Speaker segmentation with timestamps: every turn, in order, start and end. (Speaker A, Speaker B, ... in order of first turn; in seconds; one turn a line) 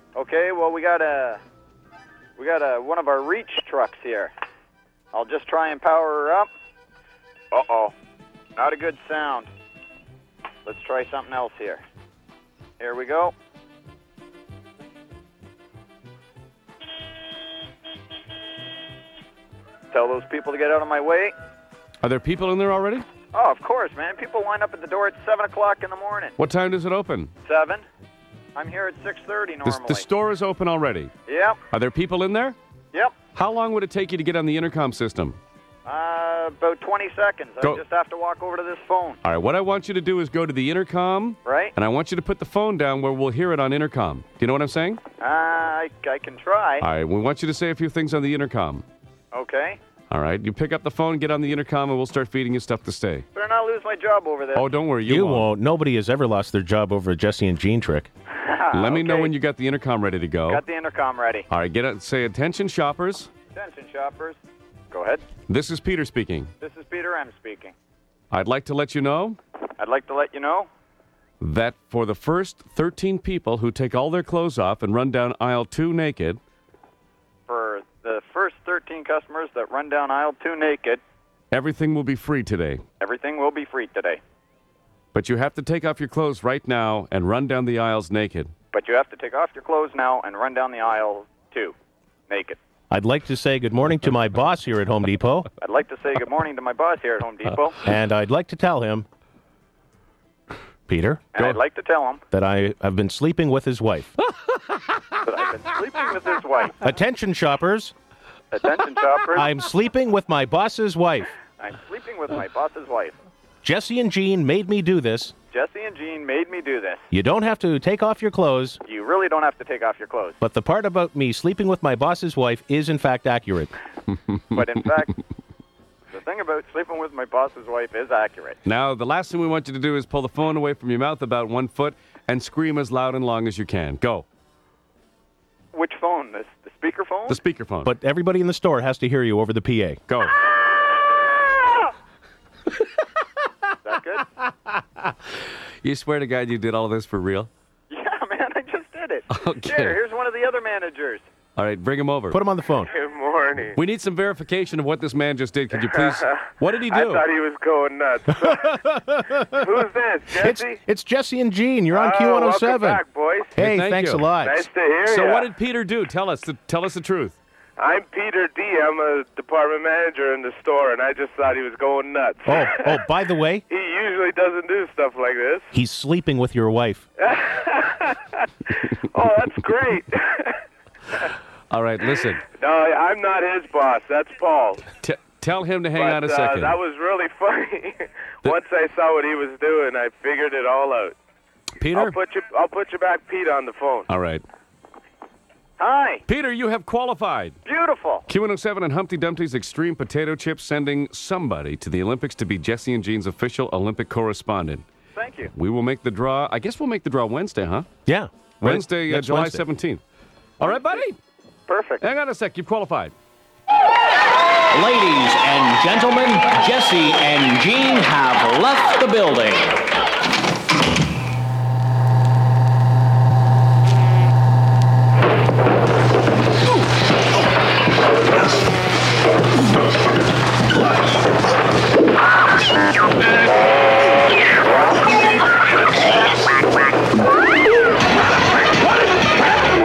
Speaker A: 0.1-1.4
Speaker A: 2.4-4.3
Speaker A: 5.1-6.5
Speaker A: 7.5-7.9
Speaker A: 8.6-9.5
Speaker A: 10.7-11.8
Speaker A: 12.8-13.3
Speaker A: 19.9-21.3
Speaker B: 22.0-23.1
Speaker A: 23.3-26.4
Speaker B: 26.4-27.3
Speaker A: 27.4-27.8
Speaker A: 28.6-30.1
Speaker B: 29.6-31.1
Speaker A: 31.3-31.6
Speaker B: 31.7-32.5
Speaker B: 33.3-35.4
Speaker A: 35.8-39.2
Speaker B: 39.2-45.0
Speaker A: 41.4-41.7
Speaker A: 45.2-46.9
Speaker B: 46.8-48.8
Speaker A: 49.3-49.8
Speaker B: 50.1-53.2
Speaker A: 53.3-54.6
Speaker B: 54.5-55.5
Speaker C: 55.0-58.1
Speaker A: 58.3-59.3
Speaker B: 58.7-60.6
Speaker A: 60.5-61.5
Speaker B: 61.5-63.3
Speaker A: 63.5-64.4
Speaker A: 64.9-65.2
Speaker B: 65.5-66.5
Speaker A: 66.6-67.7
Speaker B: 68.3-69.4
Speaker A: 69.8-70.7
Speaker B: 71.4-76.4
Speaker A: 77.5-81.0
Speaker B: 81.5-82.8
Speaker A: 83.0-84.2
Speaker B: 85.1-88.5
Speaker A: 88.7-91.7
Speaker A: 92.3-92.6
Speaker C: 92.9-95.5
Speaker A: 95.6-97.8
Speaker C: 97.8-99.0
Speaker C: 100.9-101.3
Speaker A: 101.3-102.2
Speaker C: 102.3-104.1
Speaker A: 105.2-106.8
Speaker C: 106.8-107.9
Speaker A: 108.5-109.5
Speaker C: 109.3-111.3
Speaker A: 111.6-113.2
Speaker C: 113.6-115.3
Speaker A: 115.5-117.0
Speaker C: 117.1-118.8
Speaker A: 118.8-120.4
Speaker C: 120.4-123.7
Speaker A: 124.5-125.1
Speaker A: 126.1-128.6
Speaker B: 128.6-134.2
Speaker A: 135.7-137.4
Speaker B: 137.3-137.9
Speaker C: 137.8-140.0
Speaker B: 140.1-140.4
Speaker A: 143.8-144.3
Speaker B: 145.8-147.5
Speaker A: 147.9-151.2
Speaker B: 149.3-150.0
Speaker B: 151.6-152.4
Speaker C: 152.3-152.9
Speaker D: 152.8-153.8
Speaker B: 153.7-157.2
Speaker D: 155.7-158.8
Speaker C: 158.4-159.6
Speaker D: 159.4-160.8
Speaker C: 160.4-163.0
Speaker D: 161.9-163.5
Speaker C: 163.6-164.7
Speaker B: 163.6-164.3
Speaker D: 164.4-165.5
Speaker B: 165.0-167.3
Speaker D: 167.8-173.0
Speaker C: 172.4-173.6
Speaker D: 173.7-175.7
Speaker C: 175.7-177.0
Speaker D: 177.2-180.6
Speaker B: 181.7-182.4
Speaker D: 182.4-184.9
Speaker B: 185.0-186.8
Speaker D: 185.9-191.2
Speaker B: 191.8-192.2
Speaker D: 191.9-194.1
Speaker B: 194.1-194.4
Speaker A: 195.8-196.2
Speaker B: 196.3-197.6
Speaker A: 197.6-198.2
Speaker B: 198.3-204.8
Speaker A: 205.2-205.5
Speaker B: 205.5-207.8
Speaker C: 208.1-209.6
Speaker B: 208.6-210.0
Speaker B: 210.6-211.2
Speaker A: 211.7-212.0
Speaker B: 212.0-213.1
Speaker E: 214.7-219.7